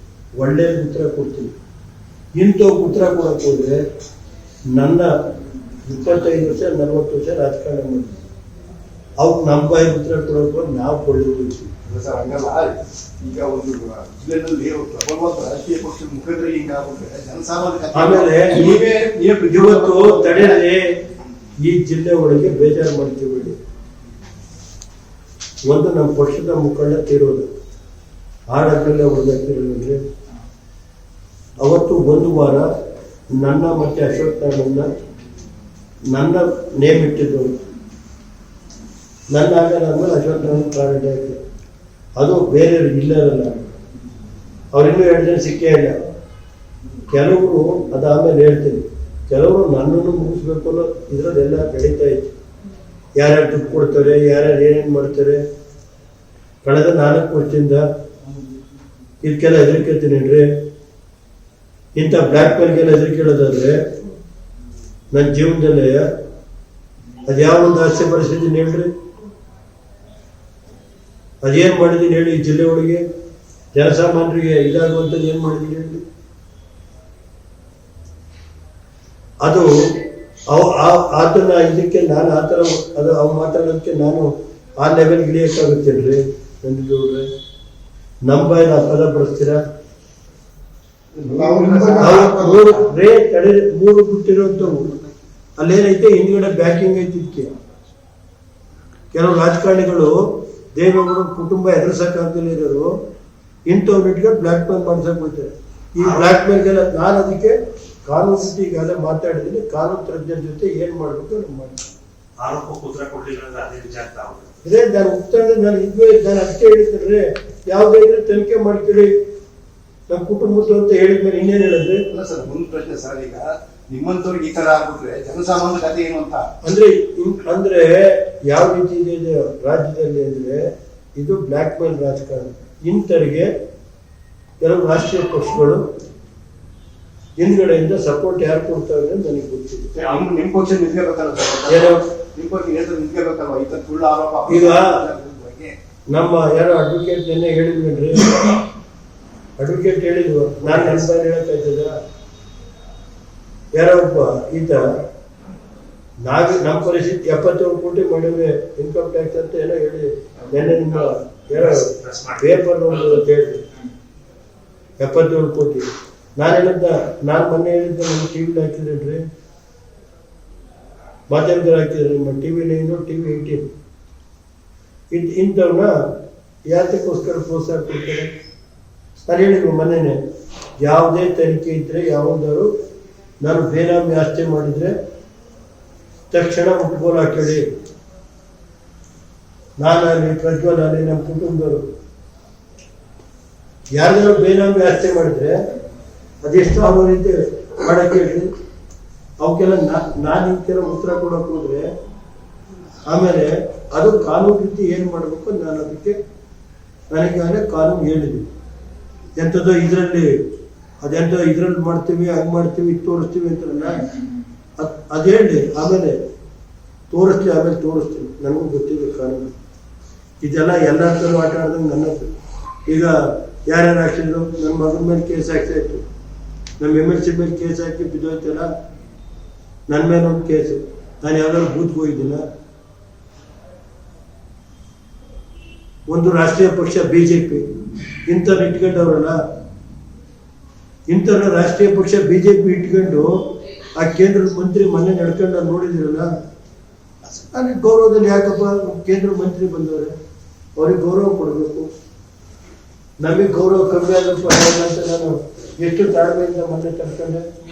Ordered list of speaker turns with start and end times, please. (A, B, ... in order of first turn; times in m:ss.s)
0:00.4-0:01.5 A
0:02.4-0:03.8 A
0:04.8-0:05.1 A
0:05.8-0:08.2 A
0:09.2-0:11.7 A
0:11.8-0:20.6 B
0:17.9-0:18.8 A
0:19.5-0:20.9 A
0:21.6-0:23.6 A
0:25.7-0:27.5 A
0:28.5-0:30.0 A
0:31.6-0:32.6 A
0:33.4-0:34.9 A
0:36.1-0:37.6 A
0:39.3-0:41.4 A
0:42.2-0:43.7 A
0:44.7-0:46.0 A
0:47.1-0:52.3 A
0:53.2-0:55.4 A
0:56.6-0:57.8 A
0:59.2-1:00.5 A
1:01.9-1:03.7 A
1:05.1-1:06.0 A
1:07.2-1:08.9 A
1:11.4-1:13.0 A
1:13.7-1:16.0 A
1:19.4-1:19.7 A
1:20.5-1:27.3 A
1:28.2-1:29.6 A
1:31.2-1:32.8 B
1:32.0-1:34.8 A
1:35.6-1:37.5 A
1:39.1-1:40.1 A
1:40.8-1:42.9 A
1:43.7-1:51.8 A
1:46.0-1:46.3 C
1:52.4-1:54.5 C
1:54.6-1:59.1 A
2:00.1-2:02.0 A
2:02.1-2:06.4 B
2:06.6-2:10.6 A
2:11.2-2:13.5 A
2:14.6-2:15.8 A
2:17.4-2:19.9 A
2:19.9-2:25.7 B
2:21.7-2:22.0 A
2:24.5-2:24.9 A
2:26.1-2:28.6 A
2:29.6-2:31.9 A
2:33.7-2:34.8 A
2:36.2-2:43.6 A
2:41.5-2:43.2 C
2:45.0-2:49.2 A
2:51.3-2:53.6 A
2:55.1-2:55.9 A
2:56.7-2:58.3 A
2:59.2-3:00.2 A
3:00.8-3:02.7 A
3:03.4-3:04.9 A
3:06.3-3:07.6 A
3:09.8-3:11.8 A
3:14.0-3:15.6 A
3:16.4-3:18.5 A
3:19.4-3:21.9 A
3:23.1-3:26.2 A
3:27.1-3:28.5 A
3:29.4-3:30.3 A
3:31.0-3:34.1 A
3:34.8-3:36.2 A
3:37.1-3:39.5 A
3:40.4-3:42.2 A
3:42.8-3:43.1 A
3:43.6-3:46.0 A
3:46.8-3:48.7 A
3:49.9-3:52.4 A
3:56.1-3:57.6 A
3:58.2-3:59.4 A
4:01.1-4:03.3 A
4:04.0-4:06.3 A
4:07.5-4:10.1 A
4:10.8-4:11.9 A
4:13.2-4:17.4 A